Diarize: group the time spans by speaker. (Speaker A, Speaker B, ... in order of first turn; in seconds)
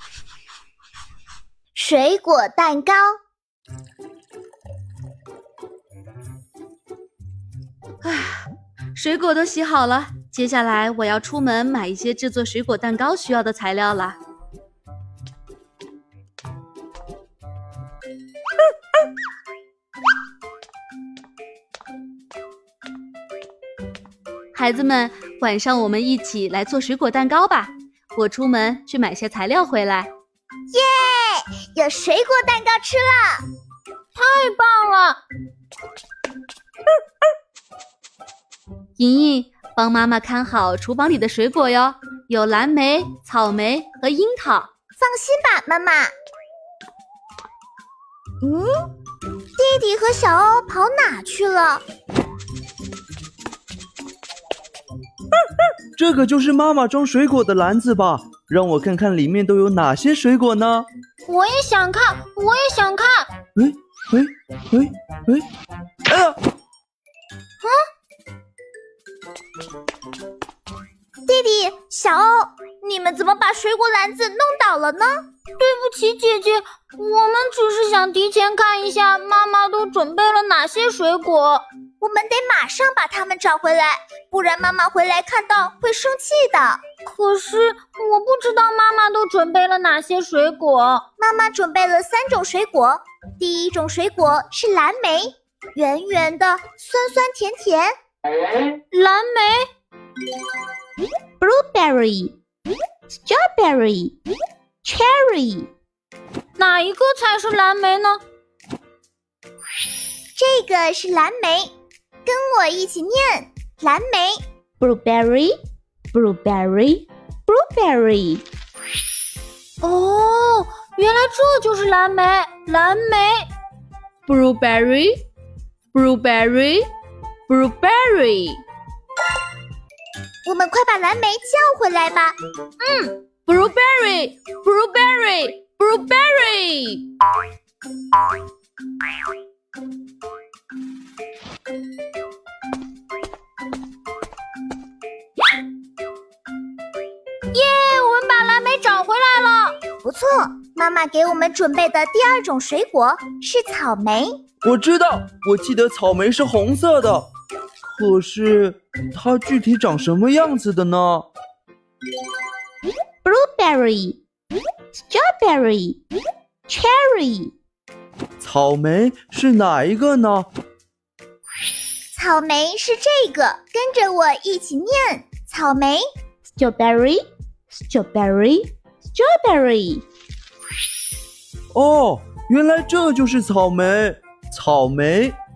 Speaker A: 1.7-3.2, 30.7-33.5, 45.0-46.1, 48.4-48.9, 49.6-51.8, 71.2-75.2, 82.0-86.8, 91.2-97.9, 110.3-111.7, 112.2-114.4, 130.4-132.3, 150.0-154.3, 172.1-176.1
Speaker B: 8.0-14.2, 24.5-30.1, 39.0-44.7, 124.3-125.2, 125.9-126.9, 127.5-128.6, 133.5-137.0
Speaker C: 34.1-35.2, 61.3-63.3, 75.6-81.6, 87.0-91.0, 98.9-99.6, 106.6-108.2, 119.8-123.5, 132.8-133.2, 147.5-149.8
Speaker D: 55.9-60.9, 63.5-65.5, 66.0-66.3, 154.6-157.3, 157.8-161.3, 168.4-170.5, 181.7-185.4
Speaker E: 101.4-102.3, 103.1-104.1, 104.8-105.7, 114.8-115.5, 116.1-118.4, 163.2-164.2, 164.9-166.0, 166.7-167.5, 176.6-180.0